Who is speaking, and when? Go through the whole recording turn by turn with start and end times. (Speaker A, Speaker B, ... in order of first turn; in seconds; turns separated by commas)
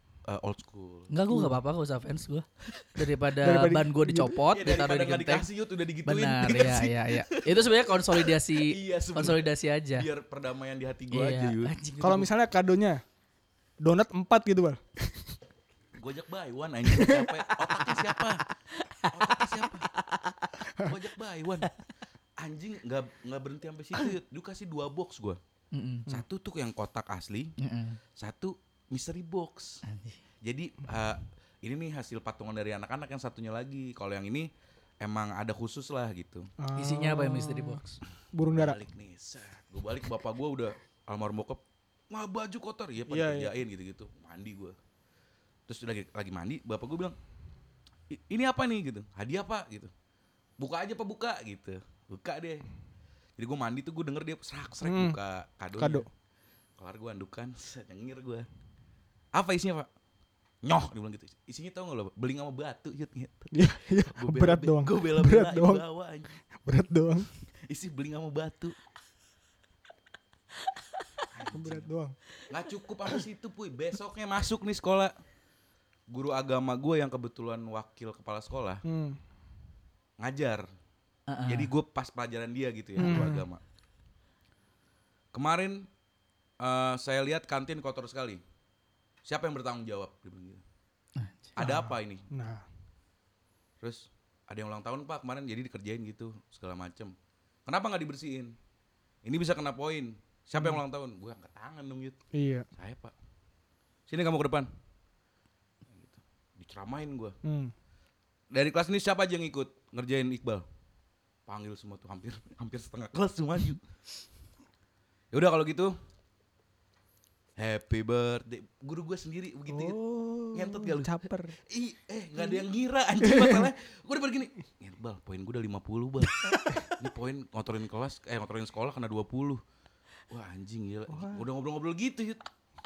Speaker A: 0.2-1.1, Speaker B: 1.1-5.5, Speaker C: 1.3-1.5, Speaker C: 3.4-4.3, Speaker A: 4.5-11.7, Speaker B: 6.0-10.1, Speaker B: 11.1-12.3, Speaker C: 12.0-13.0, Speaker C: 13.8-15.3, Speaker A: 15.9-18.4, Speaker C: 16.9-17.3, Speaker B: 17.5-18.2, Speaker B: 18.7-20.6, Speaker A: 19.1-19.9, Speaker A: 20.8-21.7, Speaker A: 22.4-25.4, Speaker B: 25.7-26.1, Speaker A: 26.1-27.5, Speaker B: 27.6-28.0, Speaker A: 28.1-29.8, Speaker B: 29.8-30.2, Speaker A: 30.4-34.5, Speaker A: 35.0-36.5, Speaker C: 36.6-37.8, Speaker B: 36.8-38.0, Speaker C: 38.3-38.8, Speaker A: 38.5-44.8, Speaker C: 43.1-43.5, Speaker A: 45.7-47.1, Speaker A: 48.1-49.9, Speaker A: 50.6-52.6, Speaker A: 53.4-56.0, Speaker C: 54.8-55.2, Speaker C: 55.8-56.1, Speaker A: 56.8-58.5, Speaker A: 59.3-59.9, Speaker A: 60.6-66.4, Speaker C: 63.5-65.8, Speaker C: 66.6-67.3, Speaker A: 67.7-68.7, Speaker A: 71.3-71.9, Speaker C: 71.5-72.1, Speaker A: 72.5-75.1, Speaker A: 76.1-78.8, Speaker C: 78.8-79.2, Speaker A: 80.2-80.7, Speaker B: 81.3-81.7, Speaker A: 81.5-83.6, Speaker C: 83.0-83.5, Speaker A: 85.3-85.9, Speaker A: 86.6-88.4, Speaker A: 89.2-90.6, Speaker B: 91.2-91.5, Speaker A: 91.5-92.2, Speaker C: 91.6-92.6, Speaker A: 93.8-97.1, Speaker A: 97.7-98.5, Speaker A: 99.2-102.2, Speaker C: 102.3-102.7, Speaker A: 102.7-103.1, Speaker A: 104.1-104.7, Speaker A: 105.8-107.3, Speaker C: 107.4-107.7, Speaker A: 108.5-110.6, Speaker A: 111.5-113.8, Speaker A: 115.3-115.9, Speaker A: 117.5-120.0, Speaker C: 119.7-121.5, Speaker A: 120.5-121.1, Speaker A: 121.7-129.6, Speaker C: 123.2-123.6, Speaker A: 130.3-132.5, Speaker C: 131.1-131.4